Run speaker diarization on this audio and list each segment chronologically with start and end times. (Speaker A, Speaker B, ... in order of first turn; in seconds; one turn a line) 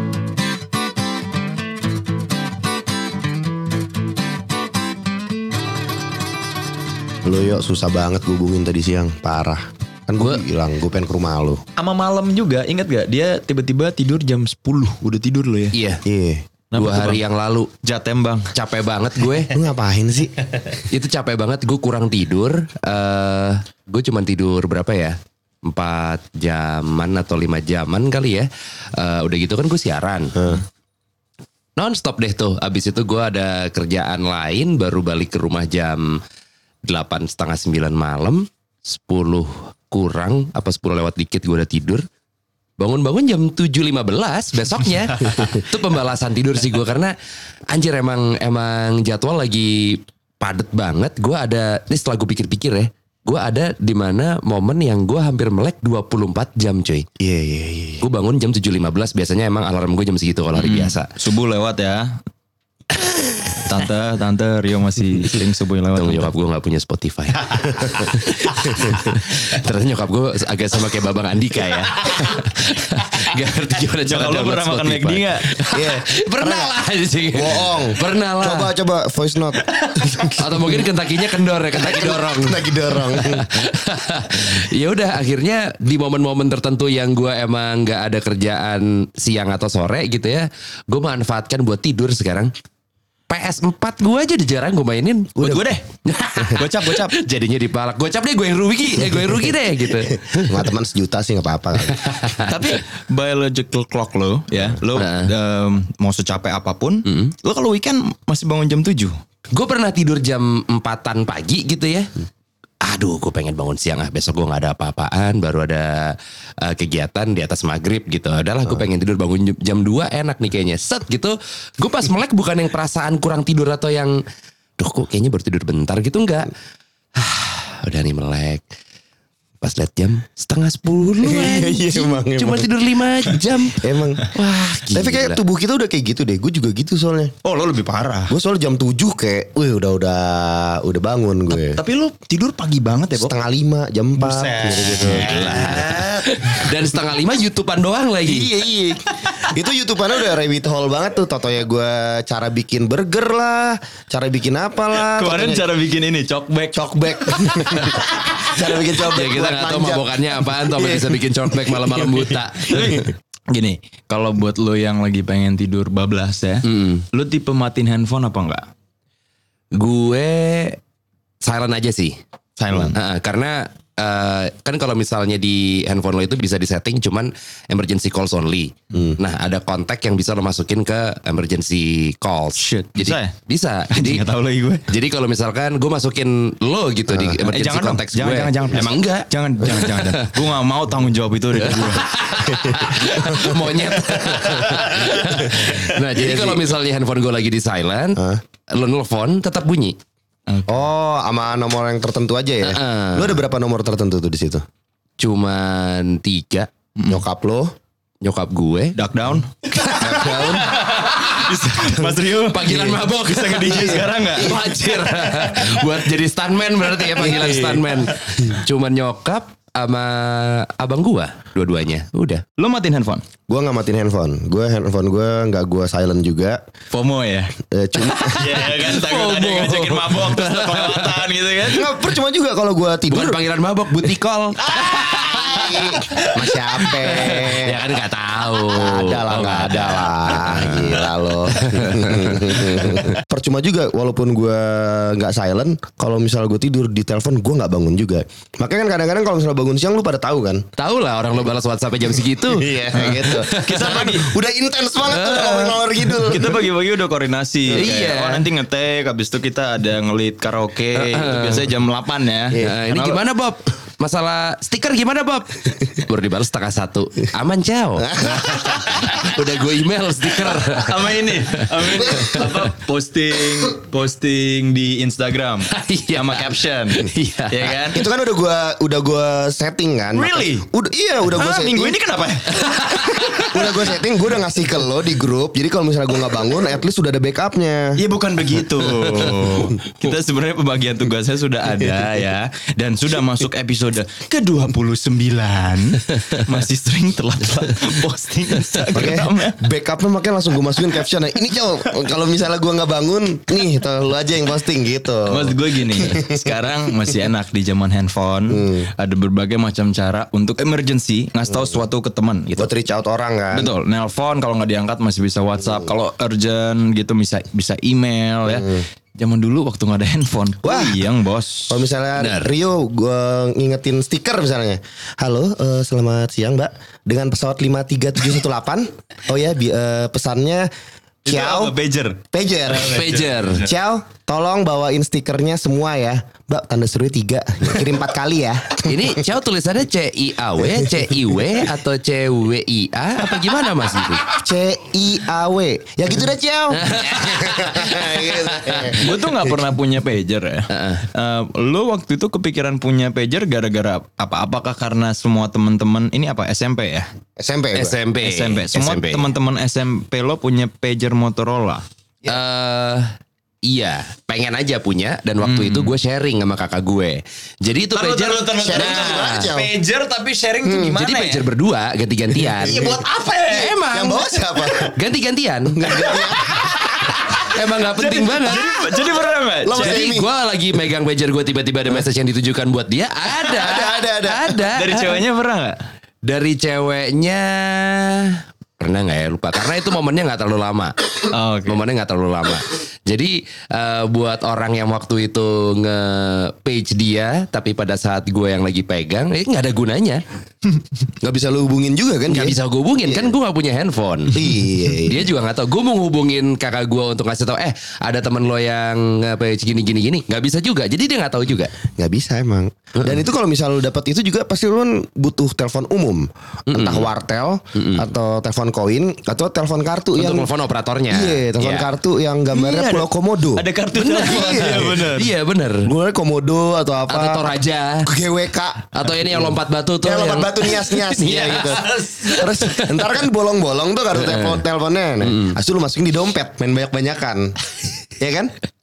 Speaker A: 7.2-11.6
Speaker B: 11.8-15.8
Speaker C: 15.7-16.0
Speaker A: 16.1-16.5
Speaker B: 16.7-17.2
Speaker C: 16.7-17.7
Speaker B: 17.8-18.5
Speaker C: 18.5-19.5
Speaker A: 19.5-20.3
Speaker C: 20.8-30.6
Speaker C: 31.8-36.2
Speaker C: 36.8-42.0
Speaker C: 42.8-47.2
Speaker C: 47.7-57.1
Speaker A: 57.2-58.0
Speaker C: 58.0-61.1
Speaker B: 60.5-62.2
Speaker B: 63.5-66.3
Speaker C: 66.0-78.7
Speaker B: 74.0-75.5
Speaker A: 75.7-76.7
Speaker A: 77.3-80.9
Speaker C: 80.3-92.5
Speaker A: 81.7-83.5
Speaker C: 93.3-95.4
Speaker A: 95.4-95.7
Speaker B: 95.4-95.8
Speaker C: 96.0-100.6
Speaker B: 96.6-97.1
Speaker A: 99.0-102.0
Speaker C: 101.9-102.5
Speaker B: 102.5-109.2
Speaker C: 104.9-105.3
Speaker C: 107.0-107.3
Speaker C: 109.5-112.1
Speaker C: 112.8-124.2
Speaker C: 124.8-126.5
Speaker C: 127.2-128.6
Speaker C: 129.6-135.4
Speaker A: 131.2-132.8
Speaker A: 133.7-137.3
Speaker B: 137.4-138.3
Speaker A: 138.3-141.8
Speaker B: 141.5-143.3
Speaker A: 143.1-146.2
Speaker B: 144.2-146.7
Speaker C: 144.9-148.5
Speaker A: 148.2-155.7
Speaker B: 154.9-158.1
Speaker A: 156.7-163.0
Speaker C: 159.1-162.7
Speaker B: 162.7-168.7
Speaker C: 166.6-167.0
Speaker C: 169.7-170.8
Speaker C: 171.4-172.2
Speaker B: 172.6-172.9
Speaker C: 172.9-184.2
Speaker B: 182.6-183.3
Speaker B: 183.9-184.8
Speaker C: 184.9-190.3
Speaker A: 187.1-187.5
Speaker B: 187.5-192.2
Speaker C: 191.8-200.0
Speaker A: 192.6-196.7
Speaker A: 198.2-198.4
Speaker B: 200.5-200.8
Speaker A: 200.7-204.6
Speaker C: 202.6-203.4
Speaker C: 205.2-206.7
Speaker B: 207.0-207.2
Speaker A: 207.1-207.7
Speaker C: 208.2-208.9
Speaker B: 208.9-214.6
Speaker C: 209.8-211.8
Speaker A: 209.9-210.7
Speaker C: 212.4-222.4
Speaker B: 217.2-217.9
Speaker B: 222.6-223.2
Speaker A: 223.5-226.6
Speaker B: 226.9-231.9
Speaker A: 227.7-228.8
Speaker C: 228.8-231.2
Speaker A: 231.6-233.4
Speaker C: 233.1-236.2
Speaker B: 234.7-235.4
Speaker A: 234.7-237.8
Speaker B: 237.0-237.5
Speaker C: 237.2-240.9
Speaker A: 238.7-250.6
Speaker C: 241.5-243.0
Speaker C: 250.8-254.1
Speaker A: 252.5-256.7
Speaker B: 253.0-254.3
Speaker C: 255.1-255.7
Speaker B: 256.2-263.2
Speaker C: 257.7-258.5
Speaker C: 260.9-261.7
Speaker C: 262.6-271.1
Speaker A: 268.1-268.6
Speaker B: 270.7-278.0
Speaker C: 275.7-277.8
Speaker A: 277.9-282.0
Speaker B: 280.1-280.7
Speaker B: 281.3-283.8
Speaker A: 283.2-288.0
Speaker B: 287.9-299.6
Speaker A: 298.9-306.5
Speaker B: 305.3-312.7
Speaker A: 308.5-308.9
Speaker A: 312.5-313.7
Speaker B: 313.5-321.8
Speaker A: 318.5-318.8
Speaker A: 320.6-321.0
Speaker A: 321.7-330.7
Speaker C: 322.2-322.5
Speaker A: 331.2-331.8
Speaker B: 331.2-333.6
Speaker A: 332.3-339.2
Speaker C: 332.8-333.6
Speaker C: 338.8-344.3
Speaker A: 340.8-341.1
Speaker A: 344.3-349.6
Speaker C: 346.8-349.0
Speaker B: 348.9-357.1
Speaker C: 350.7-351.0
Speaker A: 357.4-357.9
Speaker C: 357.7-359.3
Speaker B: 358.2-361.8
Speaker C: 362.2-369.5
Speaker B: 365.4-365.9
Speaker B: 367.9-371.4
Speaker A: 368.6-369.7
Speaker A: 370.6-371.0
Speaker C: 371.0-372.9
Speaker B: 372.6-373.8
Speaker A: 372.6-373.0
Speaker C: 373.5-374.2
Speaker A: 373.8-374.9
Speaker C: 374.9-375.9
Speaker A: 375.7-377.1
Speaker B: 376.0-380.0
Speaker C: 377.3-378.7
Speaker A: 379.6-380.3
Speaker C: 379.7-385.2
Speaker A: 383.4-384.6
Speaker B: 384.8-385.8
Speaker C: 386.2-390.9
Speaker B: 391.3-391.8
Speaker C: 391.7-400.2
Speaker A: 401.2-403.3
Speaker C: 402.3-411.8
Speaker A: 404.3-405.3
Speaker A: 411.9-420.5
Speaker C: 416.7-417.1
Speaker C: 417.8-418.1
Speaker C: 420.2-421.9
Speaker A: 421.1-423.7
Speaker B: 422.5-425.3
Speaker C: 423.9-425.9
Speaker A: 424.2-425.1
Speaker A: 425.8-437.6
Speaker C: 427.1-428.1
Speaker C: 428.9-432.1
Speaker B: 431.4-432.4
Speaker C: 434.2-434.6
Speaker C: 435.2-435.6
Speaker A: 438.2-438.5